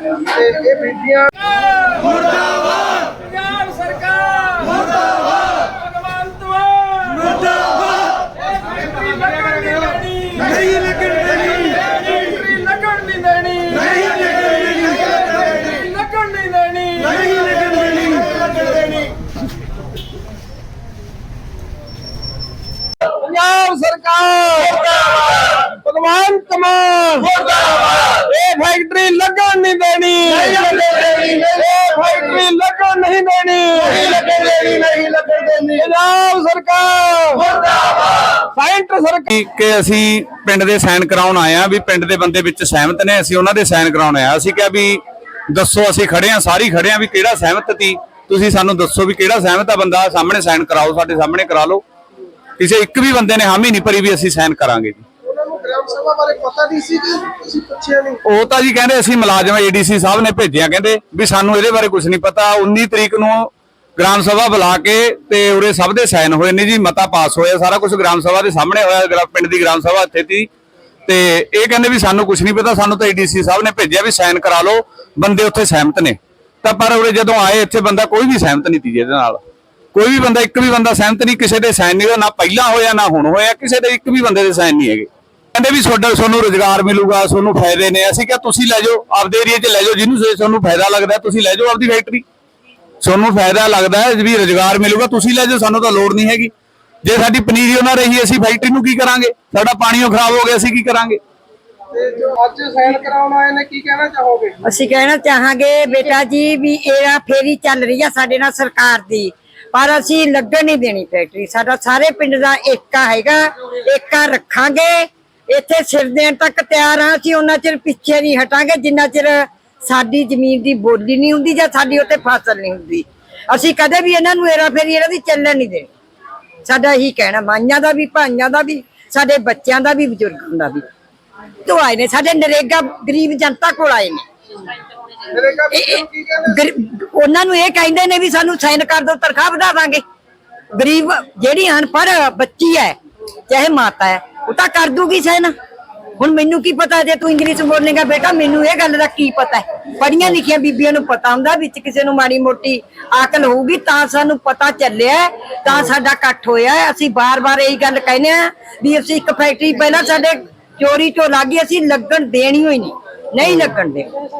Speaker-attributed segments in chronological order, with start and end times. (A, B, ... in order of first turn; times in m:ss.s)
0:00.2-0:01.5 A
0:03.3-0:05.0 B
0:05.8-0:07.4 B
0:09.0-0:18.3 B
0:23.2-0:39.3 B
0:39.3-0:51.8 C
0:52.6-0:55.0 C
0:55.3-0:58.2 A
0:58.3-1:10.5 C
1:11.1-1:19.4 C
1:20.0-1:32.2 C
1:33.0-1:36.5 C
1:37.0-1:41.2 C
1:41.9-1:44.6 A
1:44.6-2:05.9 D
2:06.6-2:10.8 D
2:11.7-2:14.3 D
2:15.3-2:16.7 A
2:15.7-2:20.0 D
2:20.7-2:23.0 D
2:23.5-2:25.5 D
2:26.2-2:44.1 D
2:43.4-2:43.7 A